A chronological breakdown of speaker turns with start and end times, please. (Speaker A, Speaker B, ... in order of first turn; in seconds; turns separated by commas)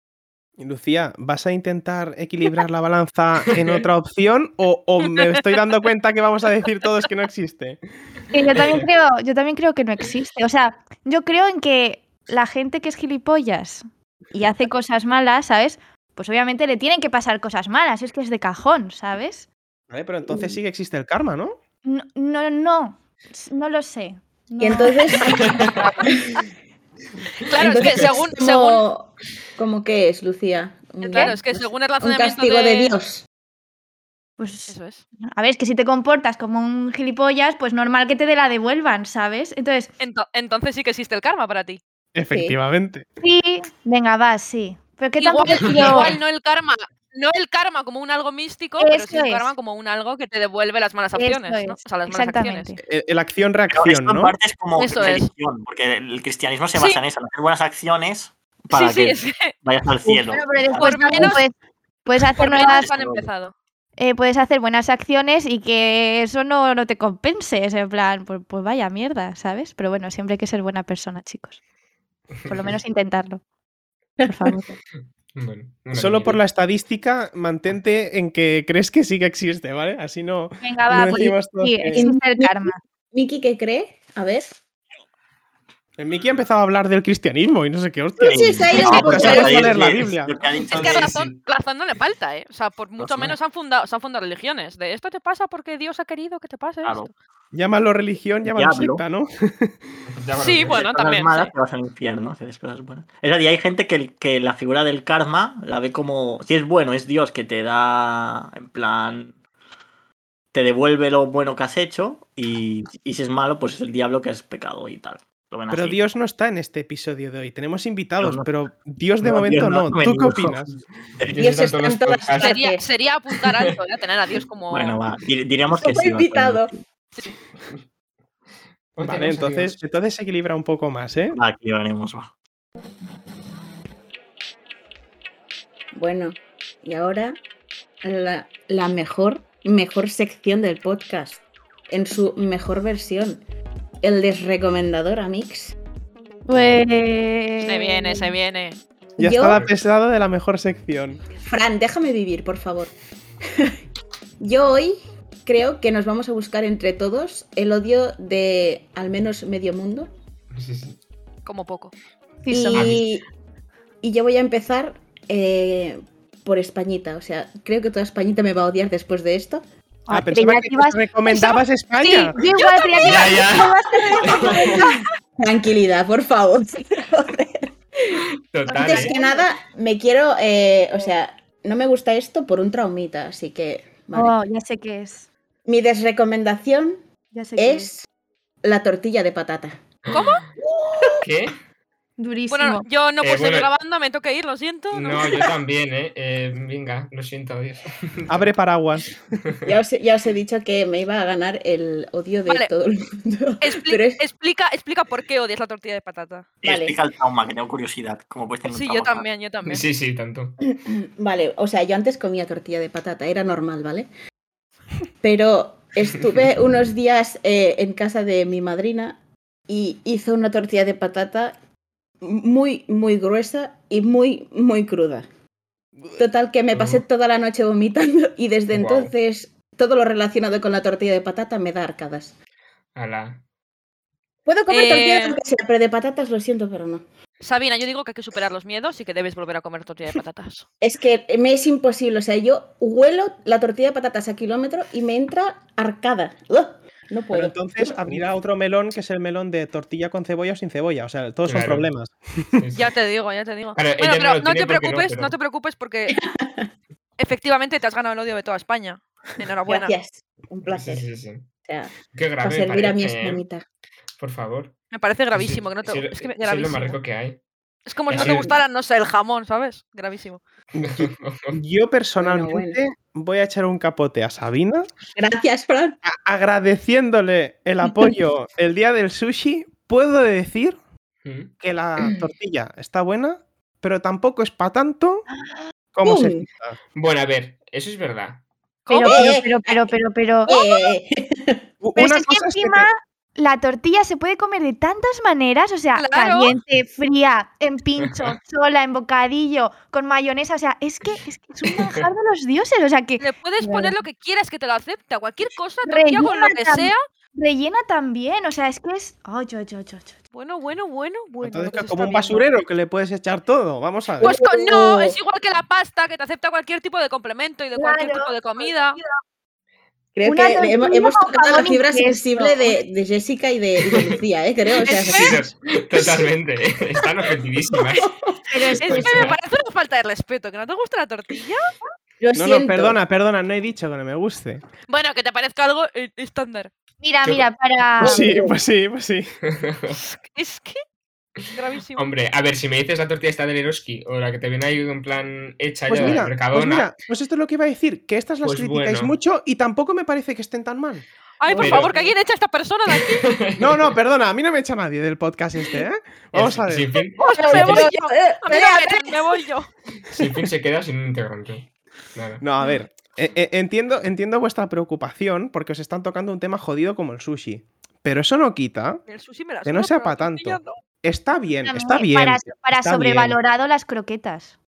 Speaker A: 0.6-7.8, Speaker B: 3.5-3.8, Speaker C: 8.3-19.5, Speaker B: 8.5-8.8, Speaker A: 19.9-21.6, Speaker C: 21.8-25.5, Speaker D: 24.6-26.3, Speaker B: 25.4-25.9, Speaker E: 25.6-26.4, Speaker E: 27.4-28.8, Speaker D: 27.5-33.2, Speaker E: 31.0-32.9, Speaker C: 34.4-39.9, Speaker E: 34.7-35.0, Speaker E: 40.0-41.8, Speaker A: 42.1-43.0, Speaker D: 42.3-42.6, Speaker C: 43.2-46.2, Speaker E: 45.2-52.7, Speaker B: 45.6-46.0, Speaker C: 48.8-49.5, Speaker C: 51.1-52.8, Speaker A: 52.8-54.3, Speaker F: 53.7-61.4, Speaker E: 54.8-55.3, Speaker E: 56.7-57.0, Speaker E: 58.7-59.5, Speaker C: 60.0-62.9, Speaker E: 60.7-61.4, Speaker E: 62.4-63.5, Speaker F: 62.8-63.3, Speaker C: 64.0-71.6, Speaker B: 72.3-72.8, Speaker C: 72.5-73.4, Speaker D: 74.2-74.7, Speaker C: 74.2-74.7, Speaker B: 75.3-76.4, Speaker A: 75.9-82.1, Speaker C: 80.6-82.8, Speaker D: 81.9-84.5, Speaker A: 86.0-90.3, Speaker D: 88.2-89.7, Speaker F: 88.3-91.2, Speaker E: 90.7-97.1, Speaker B: 90.8-91.4, Speaker F: 93.0-93.3, Speaker F: 96.8-97.1, Speaker A: 97.5-99.8, Speaker F: 98.5-99.0, Speaker B: 100.1-100.8, Speaker E: 100.4-101.5, Speaker F: 100.6-109.3, Speaker F: 110.5-116.0, Speaker A: 115.7-120.7, Speaker F: 118.2-118.5, Speaker F: 119.2-121.4, Speaker B: 121.3-122.6, Speaker D: 121.4-122.8, Speaker E: 122.4-125.0, Speaker F: 124.7-126.7, Speaker D: 125.7-126.7, Speaker B: 128.9-129.8, Speaker A: 129.0-131.4, Speaker F: 131.3-132.3, Speaker D: 135.9-137.4, Speaker D: 138.0-143.4, Speaker D: 144.0-145.8, Speaker C: 146.5-148.3, Speaker E: 147.6-148.8, Speaker D: 149.2-149.6, Speaker A: 149.2-151.2, Speaker D: 151.4-152.9, Speaker D: 154.4-160.1, Speaker B: 160.5-161.0, Speaker E: 161.4-161.9, Speaker C: 162.4-163.0, Speaker D: 162.5-163.2, Speaker B: 162.7-163.0, Speaker D: 164.0-169.6, Speaker C: 170.1-175.0, Speaker A: 170.1-172.4, Speaker D: 172.6-178.2, Speaker B: 173.0-174.8, Speaker B: 178.5-179.2, Speaker C: 178.7-179.4, Speaker D: 178.7-184.3, Speaker C: 184.1-185.3, Speaker D: 185.7-187.0, Speaker C: 187.3-187.9, Speaker D: 187.6-188.1, Speaker D: 188.6-189.8, Speaker B: 190.1-190.4, Speaker E: 190.1-190.4, Speaker B: 191.2-191.6, Speaker C: 192.2-192.8, Speaker E: 192.5-195.5, Speaker B: 193.2-193.7, Speaker B: 194.9-198.5, Speaker A: 198.3-199.2, Speaker B: 199.4-199.7, Speaker D: 199.6-204.2, Speaker E: 203.6-206.5, Speaker F: 206.6-209.2, Speaker D: 206.6-206.9, Speaker E: 208.6-209.8, Speaker B: 209.6-210.6, Speaker D: 210.7-214.1, Speaker D: 215.2-221.5, Speaker D: 222.2-225.3, Speaker D: 226.2-232.3, Speaker B: 226.7-227.0, Speaker B: 228.7-229.1, Speaker B: 232.9-233.4, Speaker D: 234.4-237.0, Speaker E: 234.7-235.4, Speaker E: 237.4-240.7, Speaker D: 240.8-248.2, Speaker A: 247.3-252.6, Speaker B: 251.4-251.9, Speaker B: 252.6-252.9, Speaker E: 252.7-256.2, Speaker B: 253.8-255.3, Speaker D: 256.1-256.7, Speaker E: 257.2-259.9, Speaker D: 259.7-261.1, Speaker B: 260.7-261.5, Speaker D: 261.6-263.6, Speaker B: 262.1-263.4, Speaker B: 264.2-264.8, Speaker E: 264.9-267.0, Speaker B: 265.3-267.4, Speaker E: 267.9-270.4, Speaker B: 268.1-268.5, Speaker D: 268.1-268.6, Speaker A: 270.7-274.9, Speaker B: 270.8-271.6, Speaker D: 272.2-272.8, Speaker D: 275.1-276.0, Speaker A: 276.0-280.8, Speaker B: 281.2-281.5, Speaker A: 281.6-285.3, Speaker A: 285.9-286.8, Speaker D: 286.0-286.4, Speaker B: 286.9-288.4, Speaker E: 288.9-289.3, Speaker C: 288.9-290.9, Speaker D: 289.0-289.9, Speaker D: 290.5-291.6, Speaker A: 291.8-292.9, Speaker C: 291.9-303.9, Speaker E: 296.0-296.6, Speaker B: 298.0-298.4, Speaker B: 301.7-302.1, Speaker E: 303.2-307.0, Speaker C: 305.9-310.2, Speaker E: 310.3-312.4, Speaker A: 311.4-314.3, Speaker E: 314.2-319.0, Speaker D: 314.2-315.2, Speaker C: 317.8-318.3, Speaker D: 320.1-325.4, Speaker C: 320.2-322.8, Speaker E: 324.9-325.4, Speaker B: 325.0-329.4, Speaker D: 327.9-328.3, Speaker C: 328.5-329.3, Speaker E: 328.8-331.6, Speaker D: 332.2-333.0, Speaker A: 332.3-334.6, Speaker E: 334.9-336.7, Speaker C: 337.0-338.3, Speaker B: 337.2-337.5, Speaker A: 338.0-339.3, Speaker D: 338.0-338.6, Speaker B: 339.4-340.0, Speaker E: 339.9-340.8, Speaker B: 341.4-346.9, Speaker E: 341.5-342.0, Speaker A: 345.9-351.0, Speaker B: 348.4-349.1, Speaker E: 351.4-353.3, Speaker D: 351.5-352.1, Speaker B: 351.6-351.9, Speaker B: 353.1-353.9, Speaker A: 353.6-357.0, Speaker B: 356.3-357.8, Speaker E: 357.2-359.7, Speaker D: 357.4-359.2, Speaker B: 360.1-362.4, Speaker A: 362.4-369.0, Speaker E: 369.1-370.8, Speaker A: 369.6-373.4, Speaker C: 371.7-374.5